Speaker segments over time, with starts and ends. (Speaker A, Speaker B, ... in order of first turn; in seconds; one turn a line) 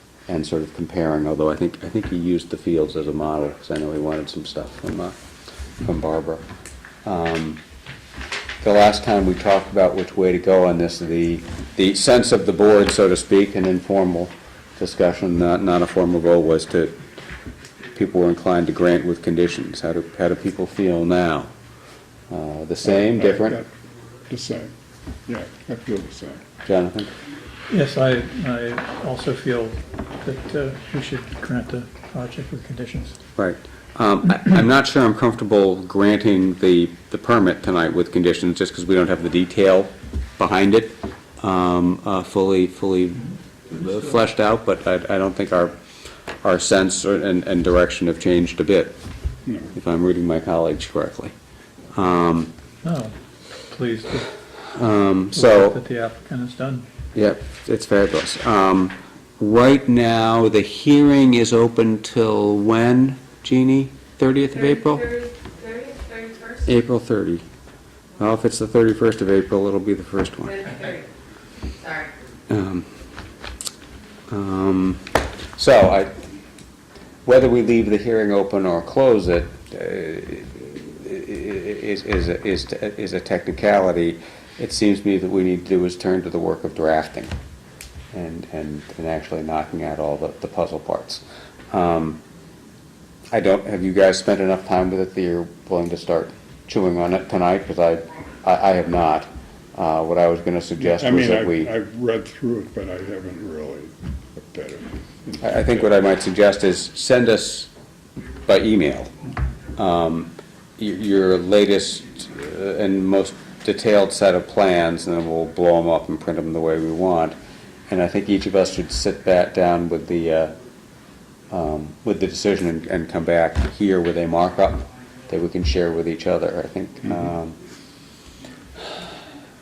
Speaker A: 0.3-5.2
Speaker A: 5.8-6.4
Speaker A: 7.0-7.6
Speaker A: 8.6-17.0
Speaker A: 17.9-21.5
Speaker A: 22.3-23.6
Speaker B: 22.8-23.7
Speaker B: 24.3-24.7
Speaker B: 25.3-26.4
Speaker A: 26.6-27.1
Speaker C: 27.7-33.2
Speaker A: 33.4-45.7
Speaker A: 46.4-48.9
Speaker B: 49.5-49.7
Speaker A: 49.7-51.3
Speaker A: 51.9-52.5
Speaker C: 52.8-54.3
Speaker A: 54.7-55.8
Speaker C: 55.3-56.9
Speaker A: 57.1-65.1
Speaker D: 64.5-66.7
Speaker A: 66.6-67.4
Speaker A: 68.2-70.8
Speaker D: 70.4-71.1
Speaker D: 71.8-72.1
Speaker A: 72.5-72.9
Speaker A: 74.3-76.2
Speaker A: 77.2-87.3
Speaker A: 88.1-92.2
Speaker A: 93.3-101.7
Speaker B: 100.8-105.8
Speaker A: 105.4-107.7
Speaker A: 108.4-109.1
Speaker A: 109.8-117.4
Speaker A: 117.9-120.5
Speaker A: 121.5-127.6